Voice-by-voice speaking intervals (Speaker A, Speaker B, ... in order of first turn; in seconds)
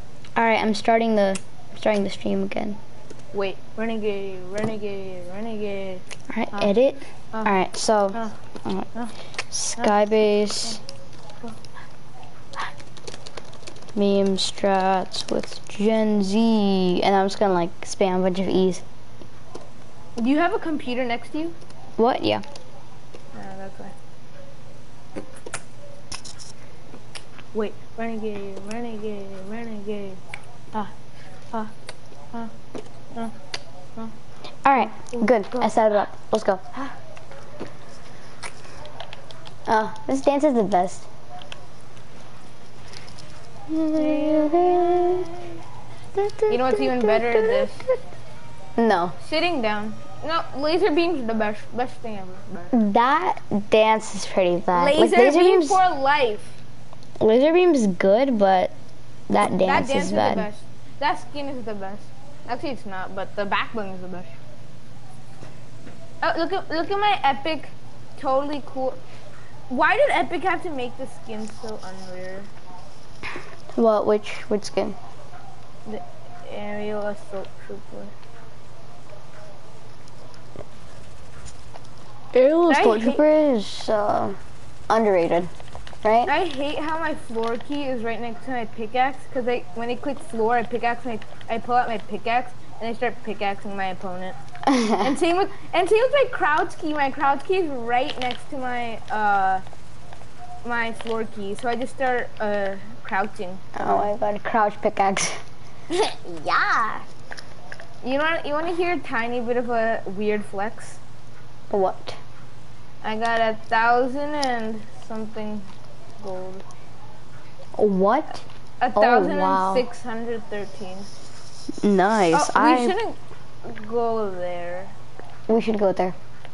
Speaker A: 0.3-2.8, 6.3-8.9, 9.5-10.8, 13.9-18.8, 22.0-22.4, 34.6-36.6, 39.7-41.0, 43.7-45.3, 46.1-47.7, 48.8-49.1, 52.7-55.8, 57.2-58.7, 59.3-60.5, 73.8-75.0, 82.3-84.4, 84.9-85.5, 86.0-86.3, 94.7-95.1, 103.8-105.4, 111.7-112.2, 117.8-118.4, 119.0-119.9, 121.8-123.0, 125.5-126.2
Speaker B: 3.3-6.8, 20.2-21.6, 23.3-23.9, 27.5-30.2, 35.0-35.7, 44.0-45.3, 46.5-47.9, 49.2-52.8, 54.7-56.6, 59.6-64.3, 66.2-69.0, 69.7-72.5, 75.9-78.1, 82.7-83.2, 86.2-94.4, 95.0-99.6, 100.6-104.1, 105.9-107.0, 108.0-111.0, 113.0-116.6, 118.8-121.1, 122.3-124.9